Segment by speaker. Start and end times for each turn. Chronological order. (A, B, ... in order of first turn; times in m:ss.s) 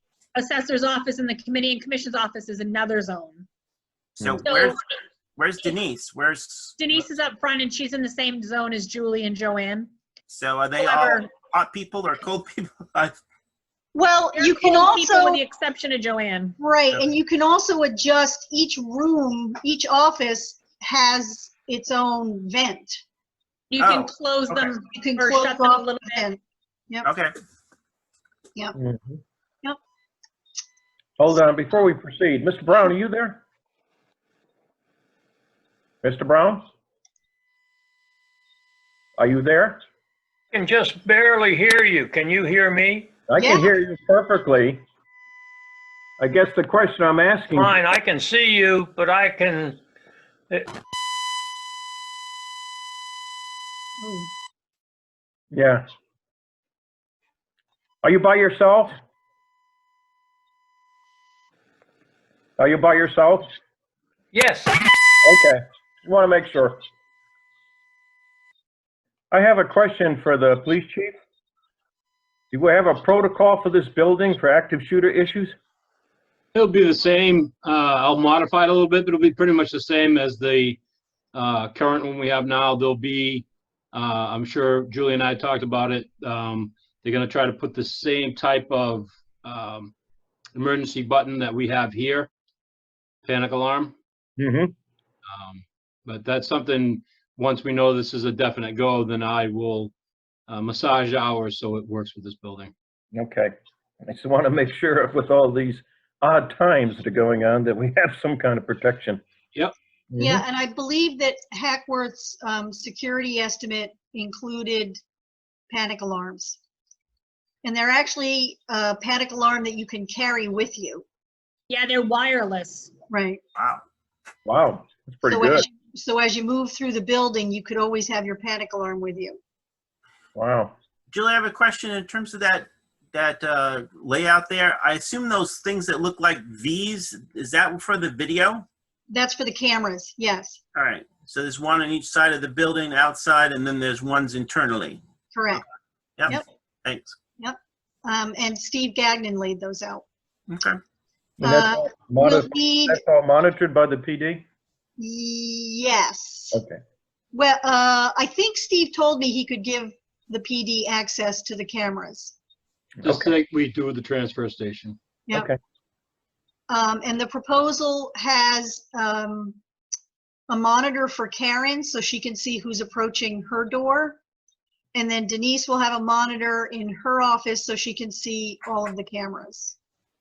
0:00.3-0:03.5 A
0:04.2-0:07.0 B
0:04.4-0:04.7 A
0:06.8-0:09.9 A
0:10.3-0:13.2 B
0:10.8-0:11.3 A
0:13.9-0:15.4 C
0:14.3-0:16.6 A
0:16.6-0:23.0 C
0:23.7-0:26.3 A
0:23.8-0:24.7 B
0:24.9-0:26.4 C
0:27.0-0:27.3 B
0:28.8-0:29.2 D
0:31.2-0:33.4 D
0:36.0-0:36.7 D
0:39.2-0:39.8 D
0:40.5-0:43.1 E
0:43.3-0:44.8 D
0:43.4-0:43.7 C
0:46.2-0:47.8 D
0:47.5-0:49.8 E
0:55.5-0:55.9 D
0:58.0-0:58.9 D
1:02.6-1:03.5 D
1:04.3-1:04.8 E
1:05.2-1:06.8 D
1:09.3-1:11.1 D
1:12.5-1:15.5 D
1:16.5-1:20.8 F
1:21.3-1:29.9 F
1:30.5-1:32.3 F
1:33.2-1:33.9 F
1:34.4-1:34.7 D
1:35.3-1:39.9 F
1:40.5-1:42.7 F
1:43.1-1:49.2 D
1:50.1-1:50.4 D
1:50.2-1:55.0 C
1:55.7-1:56.6 C
1:57.6-2:01.0 C
2:01.7-2:02.9 A
2:03.1-2:03.4 C
2:03.6-2:03.8 B
2:04.4-2:05.6 D
2:05.3-2:09.4 C
2:10.3-2:10.7 D
2:11.1-2:18.6 B
2:19.1-2:20.6 C
2:20.7-2:25.0 B
2:25.3-2:25.6 C
2:26.2-2:27.2 B
2:27.4-2:30.0 C
2:30.5-2:30.8 B
2:31.4-2:34.4 D
2:31.4-2:33.0 C
2:35.0-2:36.6 C
2:36.5-2:36.8 D
2:37.3-2:42.3 C
2:43.0-2:43.3 D
2:43.0-2:45.0 F
2:45.3-2:45.6 D
2:46.7-2:49.6 C
2:50.5-2:54.2 C
2:54.9-2:59.7 C